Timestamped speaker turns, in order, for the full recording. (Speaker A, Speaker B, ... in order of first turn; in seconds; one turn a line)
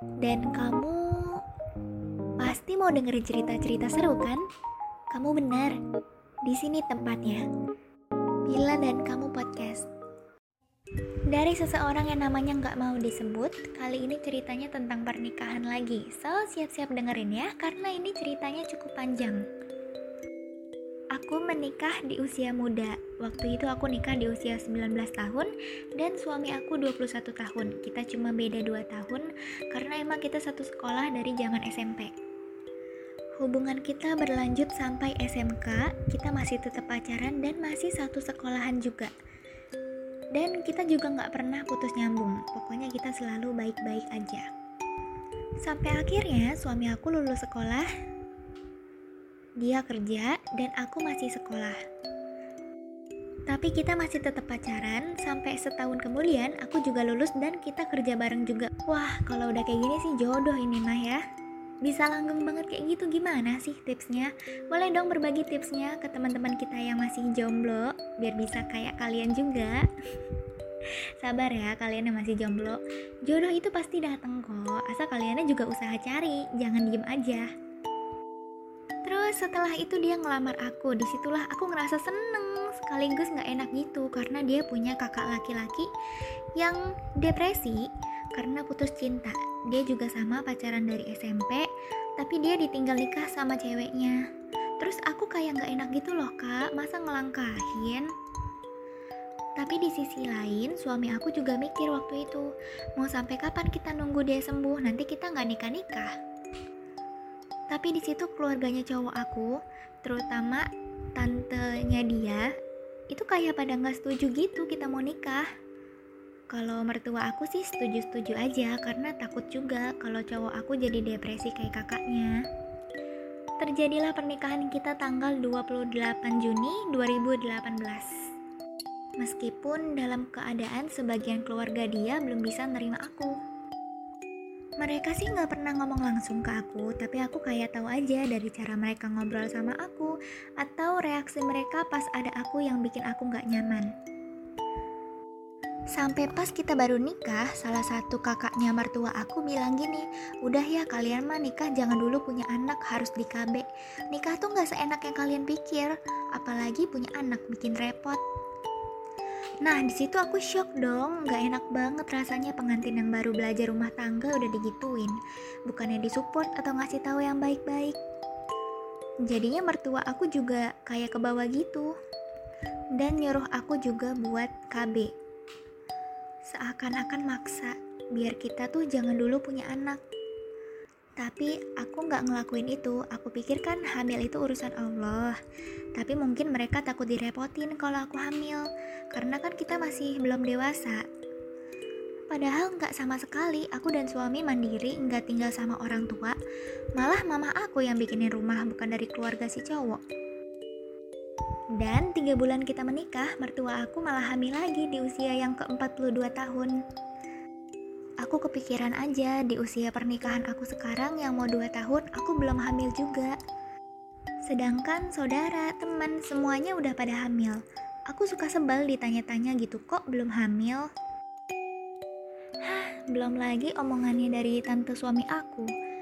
Speaker A: 0.2-1.4
Speaker A: 2.4-4.4
Speaker A: 5.1-5.8
Speaker A: 6.5-7.4
Speaker A: 8.5-9.9
Speaker A: 11.3-19.4
Speaker A: 21.1-32.1
Speaker A: 33.4-39.1
Speaker A: 40.3-44.5
Speaker A: 45.6-47.9
Speaker A: 49.6-51.8
Speaker A: 53.5-61.2
Speaker A: 61.8-69.8
Speaker A: 71.2-77.5
Speaker A: 79.0-85.9
Speaker A: 86.6-91.6
Speaker A: 92.2-94.2
Speaker A: 94.8-98.1
Speaker A: 99.6-106.1
Speaker A: 107.7-112.5
Speaker A: 113.1-115.4
Speaker A: 116.5-122.3
Speaker A: 123.6-128.1
Speaker A: 129.2-133.3
Speaker A: 134.8-143.9
Speaker A: 145.9-158.2
Speaker A: 159.6-168.0
Speaker A: 169.3-171.9
Speaker A: 172.9-175.1
Speaker A: 176.5-180.0
Speaker A: 181.2-185.3
Speaker A: 185.9-191.0
Speaker A: 192.3-196.4
Speaker A: 196.9-200.0
Speaker A: 201.8-206.8
Speaker A: 208.2-213.3
Speaker A: 214.4-220.9
Speaker A: 222.6-225.7